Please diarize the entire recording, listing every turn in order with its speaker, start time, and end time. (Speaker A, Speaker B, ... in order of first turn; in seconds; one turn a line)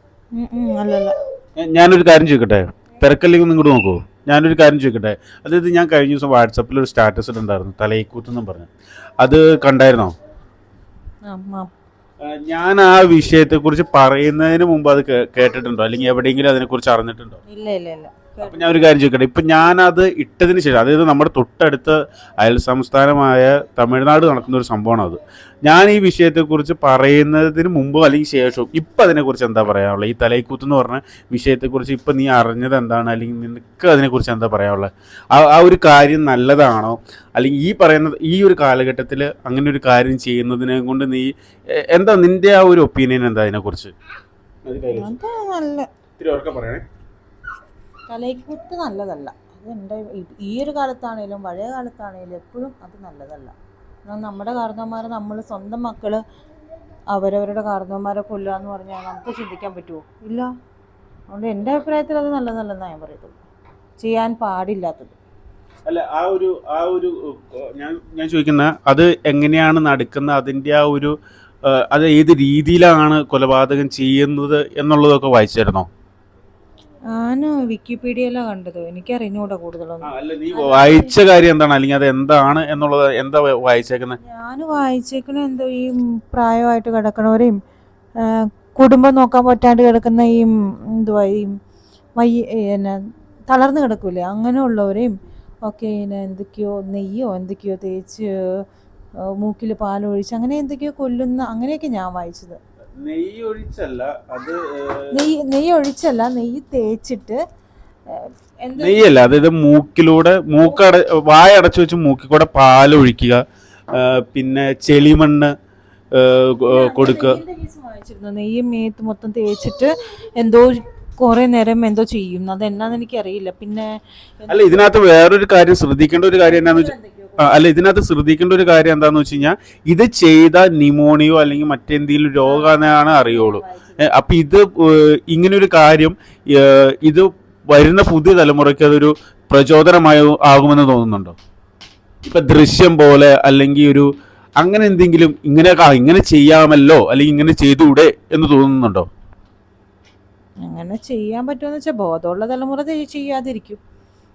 Speaker A: 0.3-1.1
Speaker B: 1.6-8.7
Speaker B: 9.2-10.1
Speaker A: 11.2-11.7
Speaker B: 12.2-17.4
Speaker A: 17.5-18.9
Speaker B: 18.4-43.9
Speaker B: 44.6-45.1
Speaker A: 44.9-45.9
Speaker B: 46.2-46.8
Speaker A: 48.1-53.5
Speaker A: 54.0-56.2
Speaker A: 57.1-60.5
Speaker A: 61.3-63.4
Speaker A: 64.0-65.2
Speaker B: 65.8-71.1
Speaker B: 71.7-75.9
Speaker A: 77.1-81.2
Speaker B: 80.0-84.2
Speaker A: 84.2-87.5
Speaker A: 88.2-91.5
Speaker A: 92.2-95.1
Speaker A: 95.7-98.3
Speaker A: 99.4-102.6
Speaker B: 103.0-105.3
Speaker A: 105.1-107.4
Speaker A: 108.1-109.2
Speaker B: 108.8-113.4
Speaker B: 113.9-115.5
Speaker B: 116.1-117.4
Speaker A: 116.7-124.9
Speaker B: 124.5-141.3
Speaker A: 126.4-127.6
Speaker A: 132.4-134.1
Speaker B: 142.2-149.1
Speaker A: 150.6-153.8